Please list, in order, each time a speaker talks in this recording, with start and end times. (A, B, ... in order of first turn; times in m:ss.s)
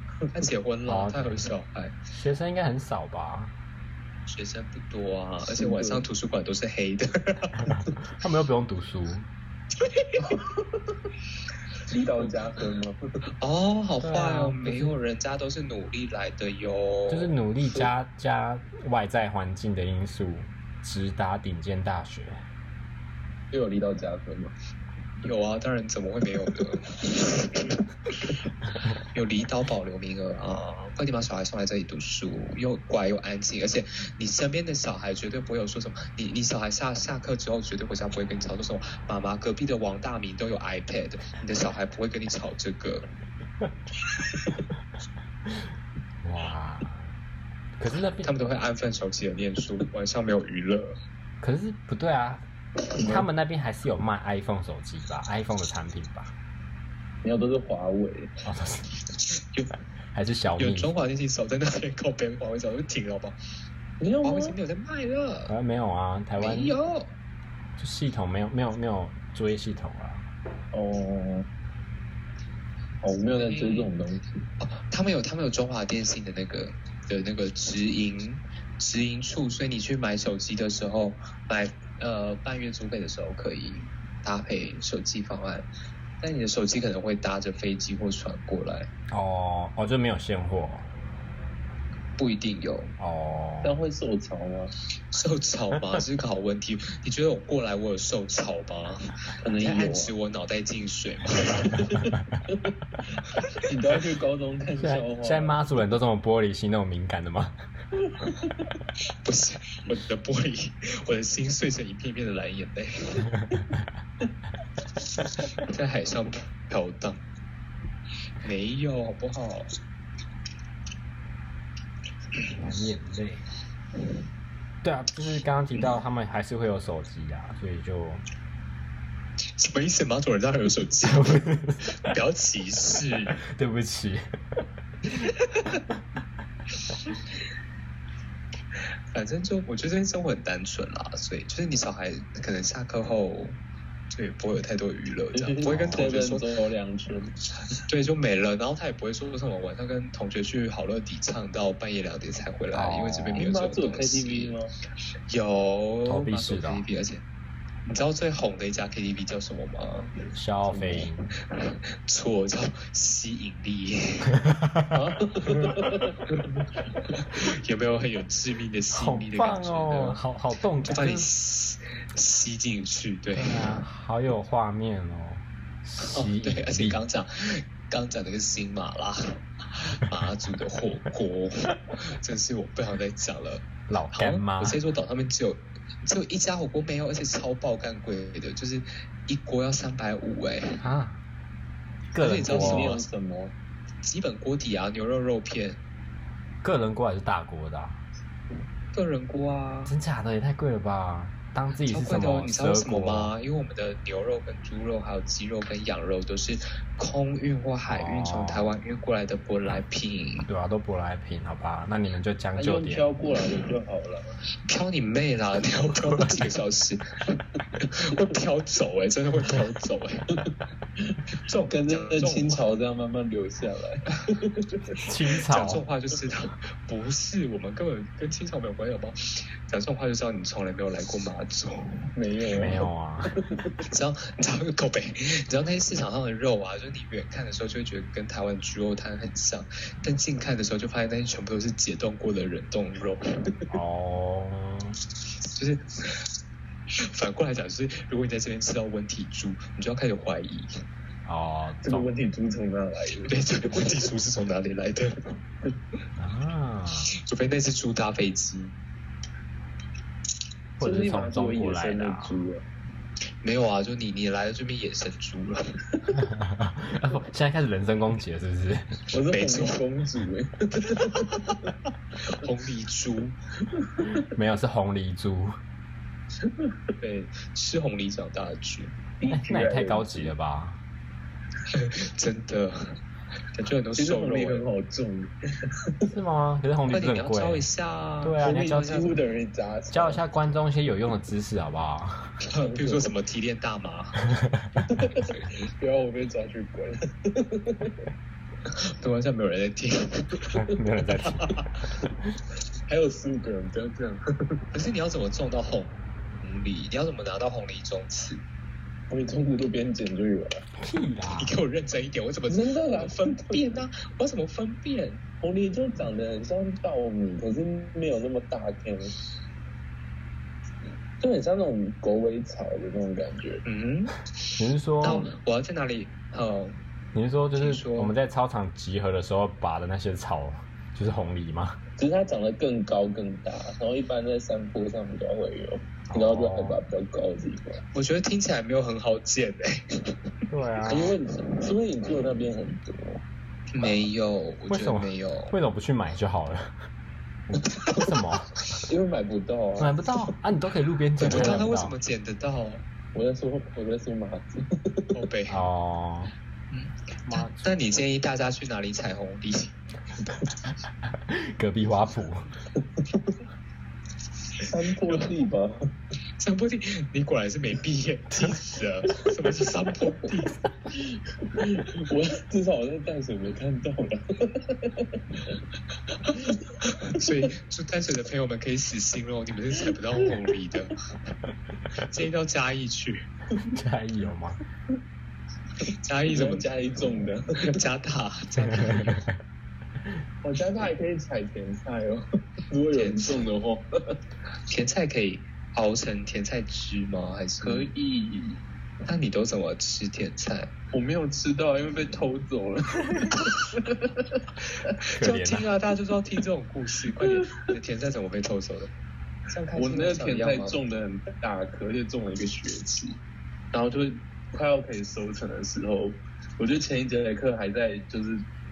0:00.3-0:02.0 A
0:00.9-0:01.5 B
0:02.1-0:03.5 B
0:04.3-0:07.7 A
0:05.6-0:06.0 C
0:07.6-0:09.3 B
0:09.8-0:10.4 A
0:10.2-0:11.0 C
0:11.9-0:13.0 C
0:13.4-0:17.4 A
0:14.0-0:15.0 B
0:17.1-0:22.4 B
0:23.5-0:24.5 C
0:25.2-0:43.0 A
0:46.2-0:47.1 B
0:47.8-0:48.3 B
0:48.2-0:51.0 A
0:51.4-0:52.4 B
0:52.9-0:53.3 C
0:53.0-0:56.3 B
0:57.2-0:58.3 C
0:58.4-0:58.8 B
1:00.1-1:00.9 B
1:00.6-1:03.4 A
1:04.0-1:04.6 C
1:04.2-1:05.5 A
1:05.5-1:06.7 B
1:06.4-1:07.1 A
1:07.8-1:10.3 B
1:10.7-1:11.5 C
1:13.0-1:14.5 C
1:13.3-1:13.9 A
1:14.6-1:25.7 A
1:26.2-1:28.9 A
1:29.1-1:30.9 B
1:32.2-1:32.9 A
1:33.0-1:33.8 B
1:33.6-1:34.7 C
1:35.1-1:41.9 A
1:39.4-1:40.1 C
1:41.7-1:42.7 C
1:43.6-1:45.6 C
1:44.8-1:47.6 B
1:48.1-1:48.7 C
1:49.2-1:53.4 A
1:55.4-1:57.2 A
1:58.4-1:59.7 A
2:02.5-2:03.4 B
2:04.8-2:08.2 B
2:09.6-2:13.4 A
2:11.1-2:11.9 B
2:13.5-2:15.2 B
2:19.1-2:23.6 A
2:24.1-2:26.5 A
2:25.3-2:27.4 C
2:25.6-2:26.1 B
2:27.8-2:34.6 A
2:32.7-2:33.4 B
2:33.4-2:34.7 C
2:35.3-2:37.2 A
2:36.1-2:36.8 B
2:37.9-2:40.1 A
2:40.3-2:41.3 B
2:42.1-2:44.4 A
2:44.6-2:44.9 B
2:44.9-2:46.3 C
2:47.2-2:50.2 A
2:48.9-2:51.3 B
2:50.8-2:53.7 A
2:53.4-2:57.0 B
2:56.0-3:10.8 A
3:03.9-3:04.8 B
3:10.8-3:11.2 B
3:12.1-3:13.0 B
3:12.2-3:13.1 A
3:12.4-3:13.5 C
3:14.0-3:15.8 A
3:16.6-3:18.0 B
3:18.9-3:19.9 A
3:19.9-3:23.3 B
3:21.8-3:30.5 A
3:27.9-3:28.8 B
3:30.5-3:33.2 B
3:32.6-3:34.3 C
3:34.7-3:40.3 A
3:41.4-3:42.7 A
3:41.7-3:45.0 C
3:45.0-3:45.8 B
3:45.5-3:49.2 A
3:49.7-3:52.0 A
3:52.2-3:52.9 C
3:52.6-3:53.4 B
3:53.9-4:03.2 A
4:03.7-4:05.0 B
4:05.5-4:06.3 A
4:07.1-4:10.7 A
4:11.2-4:12.1 B
4:11.8-4:13.9 C
4:13.3-4:15.2 A
4:16.2-4:17.1 B
4:17.2-4:18.8 A
4:20.8-4:22.4 B
4:20.8-4:22.6 C
4:23.4-4:25.6 A
4:26.2-4:29.0 B
4:29.1-4:31.7 C
4:29.2-4:29.8 A
4:30.9-4:31.6 A
4:32.2-4:33.4 A
4:33.8-4:34.1 C
4:34.3-4:35.6 B
4:36.4-4:36.7 C
4:37.0-4:39.0 A
4:39.2-4:40.3 C
4:39.3-4:40.8 B
4:41.7-4:43.0 A
4:43.6-4:44.6 A
4:44.0-4:45.3 C
4:46.1-4:47.6 B
4:46.9-4:49.2 A
4:48.2-4:48.9 B
4:48.4-4:50.2 C
4:49.9-4:52.4 B
4:52.4-4:54.2 A
4:52.6-4:53.1 C
4:54.4-4:54.8 B
4:54.8-4:58.0 C
4:59.0-5:00.6 A
5:00.6-5:01.6 B
5:01.2-5:01.8 A
5:02.9-5:04.6 C
5:04.7-5:08.4 A
5:09.1-5:10.6 C
5:10.8-5:11.5 B
5:11.4-5:15.2 A
5:12.5-5:13.8 C
5:15.4-5:19.1 C
5:21.2-5:23.6 C
5:23.6-5:24.2 A
5:24.6-5:25.3 B
5:25.0-5:26.8 A
5:27.1-5:31.8 B
5:27.6-5:28.1 A
5:32.0-5:37.7 C
5:36.1-5:36.8 B
5:37.9-5:39.9 A
5:40.5-5:41.2 B
5:40.9-5:43.2 C
5:43.7-5:45.5 A
5:44.7-5:46.8 B
5:47.5-5:48.6 B
5:48.8-5:50.3 C
5:49.8-5:52.0 B
5:51.2-5:52.8 A
5:51.2-5:51.7 C
5:53.1-5:55.1 C
5:55.1-5:55.7 A
5:55.5-5:56.3 B
5:56.7-5:59.8 A
5:57.3-5:57.8 B
6:00.2-6:00.5 C
6:01.1-6:02.5 B
6:02.8-6:03.3 C
6:04.7-6:05.8 C
6:04.9-6:05.3 A
6:06.4-6:10.6 A
6:11.0-6:15.6 C
6:16.3-6:21.0 A
6:21.9-6:23.2 A
6:23.6-6:24.6 B
6:25.8-6:26.7 A
6:26.3-6:27.8 C
6:27.6-6:29.2 A
6:28.7-6:29.4 B
6:30.4-6:34.2 C
6:32.9-6:33.4 A
6:34.7-6:37.9 A
6:37.6-6:38.6 C
6:39.1-6:40.7 A
6:40.9-6:44.4 C
6:45.2-6:45.7 B
6:45.2-6:48.9 A
6:47.2-6:47.6 C
6:49.5-6:50.8 A
6:49.8-6:53.2 C
6:53.7-6:58.4 C